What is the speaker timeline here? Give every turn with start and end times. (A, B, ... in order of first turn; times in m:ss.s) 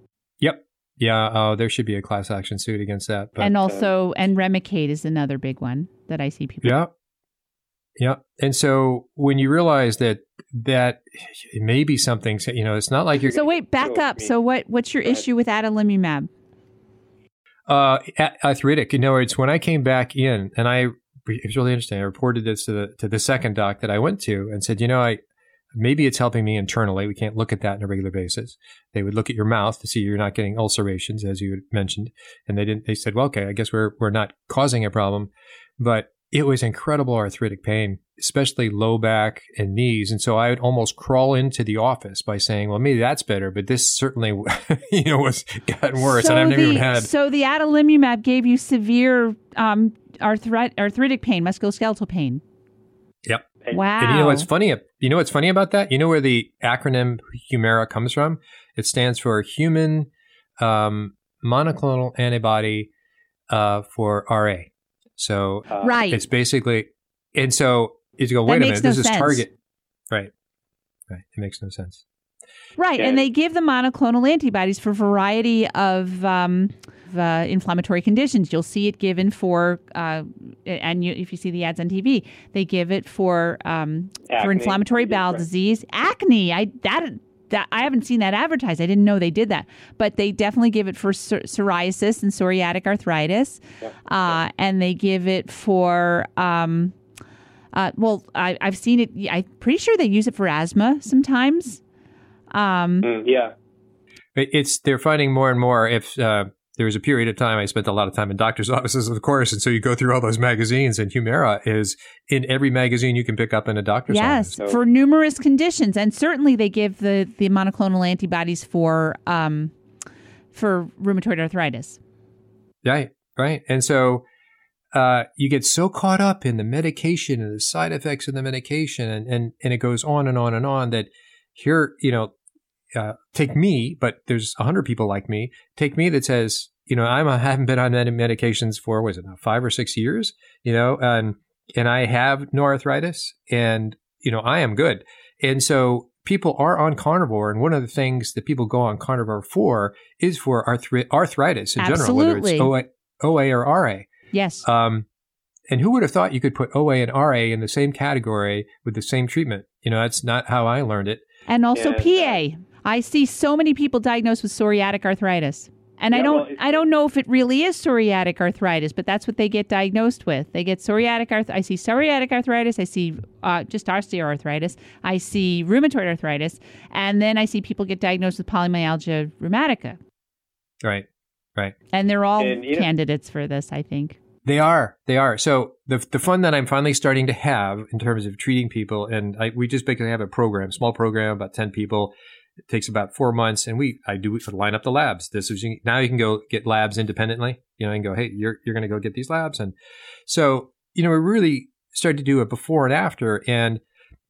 0:00.4-0:03.6 A
0:03.4-0:06.8 B
0:06.6-0:06.9 A
0:08.0-0:13.4 A
0:13.2-0:14.3 C
0:13.3-0:16.3 B
0:17.7-0:25.2 A
0:25.8-0:47.1 A
0:46.0-0:52.4 B
0:53.3-1:00.1 A
0:53.7-0:54.5 B
1:00.6-1:02.9 A
1:03.5-1:09.5 A
1:05.7-1:05.9 C
1:05.8-1:06.2 B
1:08.5-1:09.4 B
1:11.1-1:12.0 A
1:12.8-1:36.9 B
1:13.0-1:13.2 C
1:24.3-1:25.4 C
1:33.8-1:34.3 C
1:37.7-1:41.8 B
1:42.5-1:43.1 B
1:43.0-1:43.5 C
1:44.4-1:54.6 A
1:54.1-1:59.7 B
2:00.5-2:02.0 B
2:02.8-2:04.2 A
2:04.9-2:12.3 A
2:13.0-2:34.1 A
2:31.8-2:32.7 B
2:34.3-2:34.6 B
2:34.6-2:35.0 A
2:35.7-2:41.2 A
2:41.5-3:00.0 B
2:41.8-2:42.4 C
2:46.1-2:46.8 C
3:01.9-3:04.2 B
3:02.4-3:02.9 C
3:04.4-3:12.1 A
3:12.7-3:19.7 A
3:20.3-3:23.8 A